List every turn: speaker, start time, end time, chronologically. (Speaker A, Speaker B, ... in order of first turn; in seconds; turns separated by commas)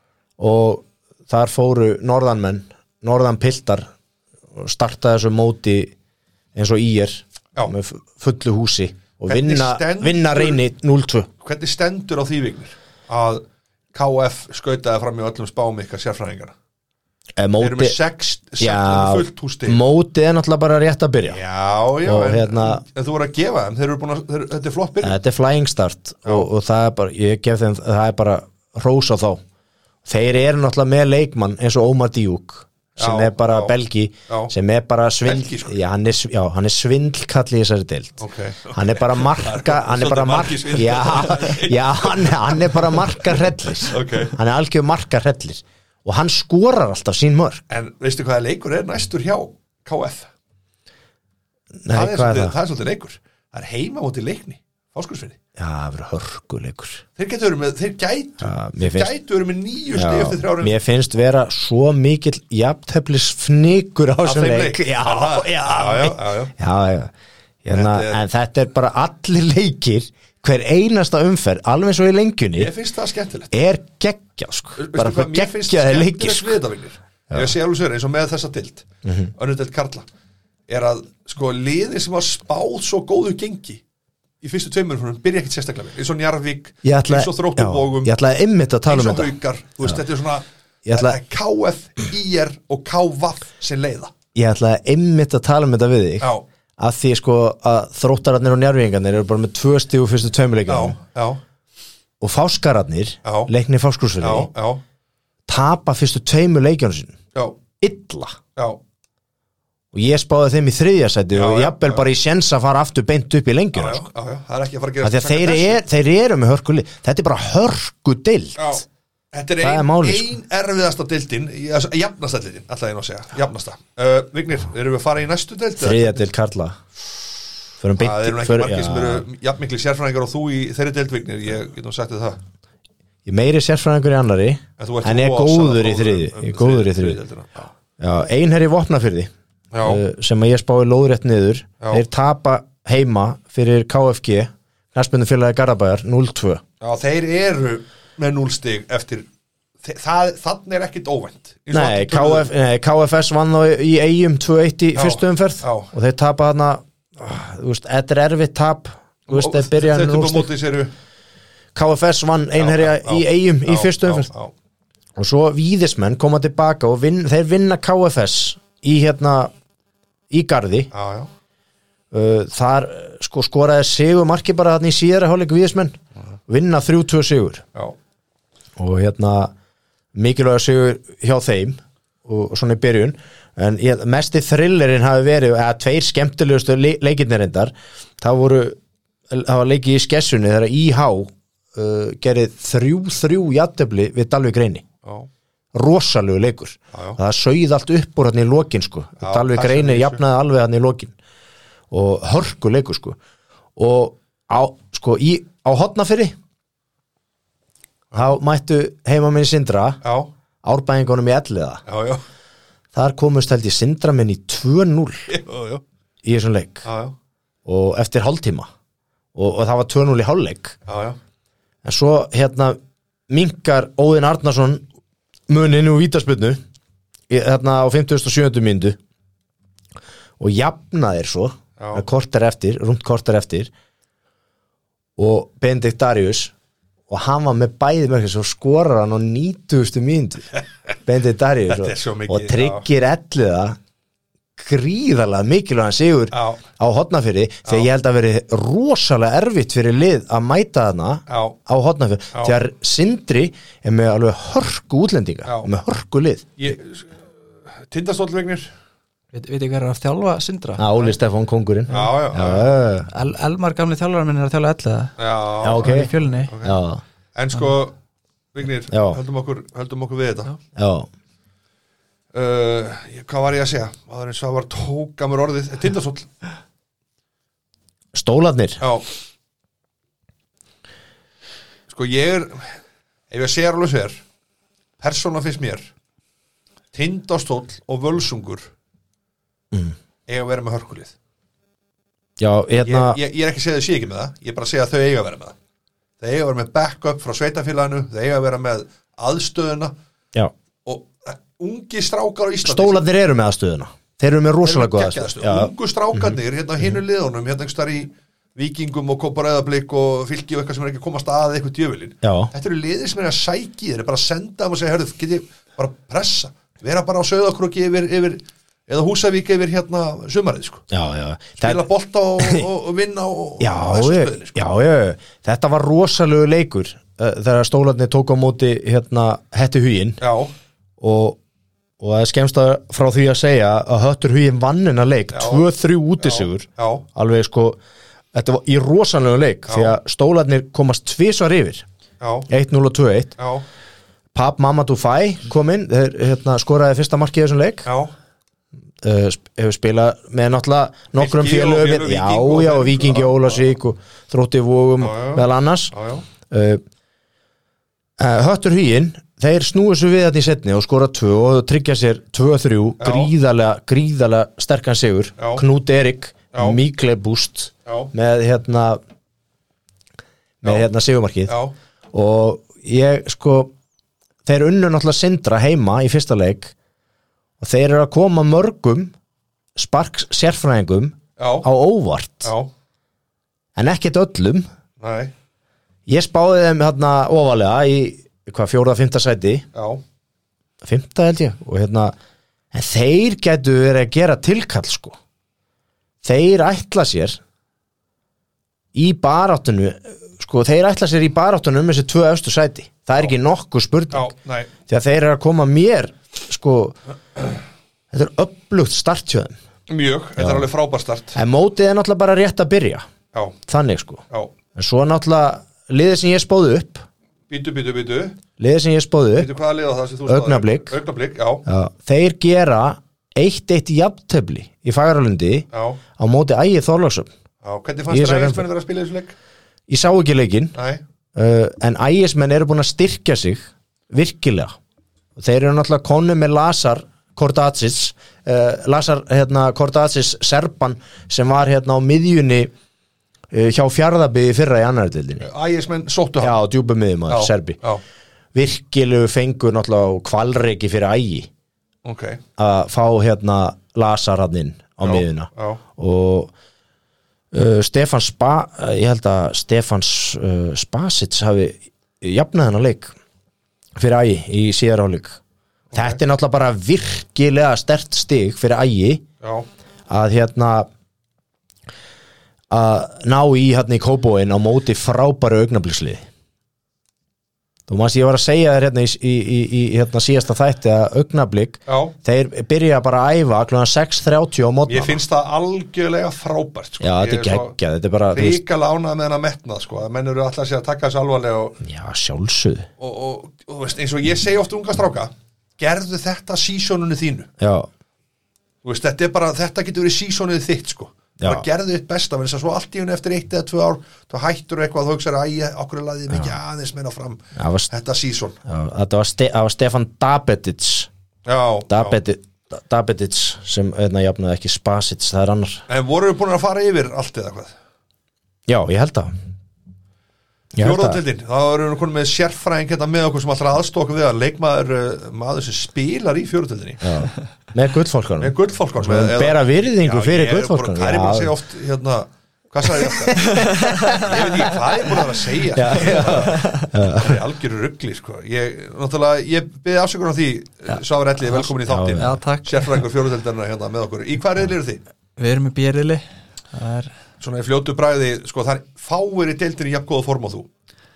Speaker A: 0.4-3.9, Speaker A: 4.5-5.9, Speaker A: 6.5-11.3, Speaker B: 9.3-10.6, Speaker B: 11.4-16.5, Speaker A: 17.4-18.0, Speaker B: 17.6-19.8, Speaker A: 18.6-21.4, Speaker B: 21.2-25.2, Speaker A: 22.1-22.8, Speaker A: 25.0-29.4, Speaker A: 30.1-38.2, Speaker B: 33.0-33.7, Speaker B: 35.2-35.8, Speaker B: 38.2-44.4, Speaker A: 38.7-47.6, Speaker B: 47.7-50.3, Speaker A: 51.8-52.5, Speaker B: 51.9-55.4, Speaker A: 55.6-57.0, Speaker B: 57.2-60.8, Speaker A: 58.4-59.1, Speaker A: 60.0-67.1, Speaker B: 64.2-66.5, Speaker A: 67.6-72.7, Speaker B: 67.7-68.2, Speaker B: 72.6-73.5, Speaker A: 73.5-76.6, Speaker B: 74.8-80.0, Speaker A: 79.0-79.3, Speaker B: 80.7-83.8, Speaker B: 84.4-88.1, Speaker A: 86.8-89.3, Speaker B: 88.9-94.1, Speaker A: 90.9-91.2, Speaker A: 94.3-101.0, Speaker B: 100.7-101.4, Speaker A: 102.2-104.5, Speaker B: 103.2-103.5, Speaker B: 104.2-104.8, Speaker A: 105.5-107.2, Speaker A: 107.8-108.4, Speaker A: 109.9-114.0, Speaker B: 111.3-112.1, Speaker B: 113.8-115.8, Speaker A: 115.0-118.8, Speaker B: 118.6-126.3, Speaker A: 119.6-120.3, Speaker A: 125.8-126.8, Speaker A: 127.8-129.3, Speaker B: 128.0-132.4, Speaker A: 133.2-137.2, Speaker B: 134.8-137.7, Speaker A: 138.0-139.3, Speaker B: 139.7-140.0, Speaker A: 139.8-146.6, Speaker B: 146.8-149.3, Speaker B: 149.8-152.5, Speaker A: 151.7-160.5, Speaker B: 154.9-155.9, Speaker B: 159.3-160.9, Speaker A: 161.8-164.3, Speaker B: 162.6-164.5, Speaker A: 165.2-169.5, Speaker A: 170.3-170.9, Speaker B: 170.9-171.3, Speaker A: 172.1-177.6, Speaker A: 178.8-179.5, Speaker A: 180.2-188.8, Speaker A: 189.3-194.8, Speaker A: 195.7-201.1, Speaker B: 196.9-197.2, Speaker B: 199.2-200.2, Speaker A: 201.9-203.2, Speaker A: 203.8-206.4, Speaker A: 208.1-210.0, Speaker B: 210.0-210.3, Speaker A: 210.6-211.8, Speaker B: 211.9-212.2, Speaker A: 212.9-215.3, Speaker B: 215.3-215.8, Speaker A: 216.2-216.8, Speaker B: 216.8-217.2, Speaker A: 217.7-218.7, Speaker A: 219.3-220.8, Speaker B: 220.9-221.2, Speaker A: 221.8-222.8, Speaker A: 223.3-224.9, Speaker A: 225.5-226.6, Speaker A: 227.3-229.0, Speaker A: 230.4-233.7, Speaker B: 231.8-232.1, Speaker A: 235.2-236.5, Speaker A: 237.1-240.5, Speaker A: 241.1-243.8, Speaker B: 241.7-242.8, Speaker A: 244.6-256.5, Speaker B: 246.3-246.6, Speaker B: 251.3-251.6, Speaker B: 255.4-255.7, Speaker B: 256.6-257.3, Speaker B: 257.8-258.7, Speaker C: 259.3-260.9, Speaker A: 260.8-263.1, Speaker B: 261.9-262.7, Speaker C: 263.1-266.5, Speaker B: 265.2-266.8, Speaker A: 265.6-267.0, Speaker B: 267.4-268.0, Speaker B: 268.5-270.6, Speaker A: 268.9-269.2, Speaker A: 270.8-271.1, Speaker B: 272.3-276.3, Speaker A: 278.1-278.8, Speaker B: 278.8-279.1, Speaker B: 281.9-282.8, Speaker B: 283.3-284.2, Speaker B: 285.0-285.9, Speaker B: 286.9-288.7, Speaker B: 290.3-291.1, Speaker A: 292.4-293.2, Speaker B: 292.8-295.6, Speaker B: 296.2-299.9, Speaker B: 300.9-303.0, Speaker A: 302.6-307.0, Speaker B: 304.6-320.8, Speaker A: 312.2-312.5, Speaker A: 320.9-321.9, Speaker B: 321.6-324.7, Speaker A: 323.6-330.2, Speaker B: 330.2-330.5, Speaker A: 331.0-331.4, Speaker A: 332.0-337.8, Speaker B: 335.3-335.6, Speaker B: 336.2-337.1, Speaker A: 338.3-341.8, Speaker B: 339.7-340.0, Speaker B: 342.2-342.5, Speaker A: 342.5-343.4, Speaker B: 343.4-343.6, Speaker A: 344.3-347.9, Speaker B: 347.9-348.1, Speaker A: 349.0-355.9, Speaker B: 351.2-353.7, Speaker B: 355.0-356.2, Speaker A: 356.5-356.8, Speaker A: 358.2-369.0, Speaker B: 363.0-363.3, Speaker B: 365.4-365.6, Speaker B: 366.5-366.8, Speaker A: 370.6-371.6, Speaker B: 371.5-371.7, Speaker A: 372.1-373.7, Speaker A: 374.4-376.7, Speaker A: 377.6-379.1, Speaker A: 379.8-382.5, Speaker B: 381.4-381.7, Speaker B: 382.4-382.7, Speaker A: 383.8-384.7, Speaker B: 385.0-385.3, Speaker A: 386.1-389.7, Speaker B: 389.7-390.0, Speaker A: 390.8-392.1, Speaker A: 392.7-395.2, Speaker A: 396.2-397.4, Speaker A: 398.9-404.3, Speaker B: 404.1-404.7, Speaker A: 404.9-407.0, Speaker A: 408.1-409.6, Speaker B: 409.9-411.4, Speaker A: 410.4-410.7, Speaker A: 411.4-413.1, Speaker A: 413.7-414.2, Speaker A: 414.8-417.1, Speaker B: 417.5-418.4, Speaker A: 418.6-419.5, Speaker B: 419.4-421.6, Speaker A: 420.3-421.0, Speaker A: 421.6-425.7, Speaker B: 425.7-426.0, Speaker A: 426.2-427.3, Speaker B: 427.6-429.3, Speaker A: 428.1-428.7, Speaker A: 429.9-430.8, Speaker B: 430.7-431.0, Speaker A: 431.4-434.7, Speaker A: 435.4-442.7, Speaker A: 443.5-445.5, Speaker B: 445.4-446.6, Speaker A: 446.4-447.8, Speaker B: 447.3-448.0, Speaker A: 448.5-451.5, Speaker B: 452.1-452.4, Speaker A: 452.6-456.5, Speaker B: 455.0-455.8, Speaker A: 457.5-463.1, Speaker A: 464.0-465.4, Speaker B: 465.9-466.2, Speaker A: 465.9-469.2, Speaker A: 470.1-470.9, Speaker A: 472.7-476.3, Speaker A: 477.9-485.2, Speaker B: 481.9-482.1, Speaker B: 484.9-487.7, Speaker A: 487.0-488.6, Speaker B: 488.3-491.8, Speaker A: 491.8-492.9, Speaker B: 493.0-497.5, Speaker A: 497.6-497.9, Speaker B: 498.8-508.6, Speaker A: 501.4-501.6, Speaker A: 507.6-507.9, Speaker A: 508.6-511.1, Speaker B: 511.5-512.2, Speaker A: 511.9-515.8, Speaker B: 515.9-517.7, Speaker A: 518.7-519.3, Speaker A: 520.8-521.2, Speaker B: 520.8-527.1, Speaker A: 527.0-531.5, Speaker B: 528.4-545.0, Speaker C: 533.4-534.8, Speaker A: 535.8-537.4, Speaker C: 535.9-536.9, Speaker C: 541.5-543.1, Speaker A: 541.9-542.4, Speaker C: 545.4-547.1, Speaker B: 547.4-550.7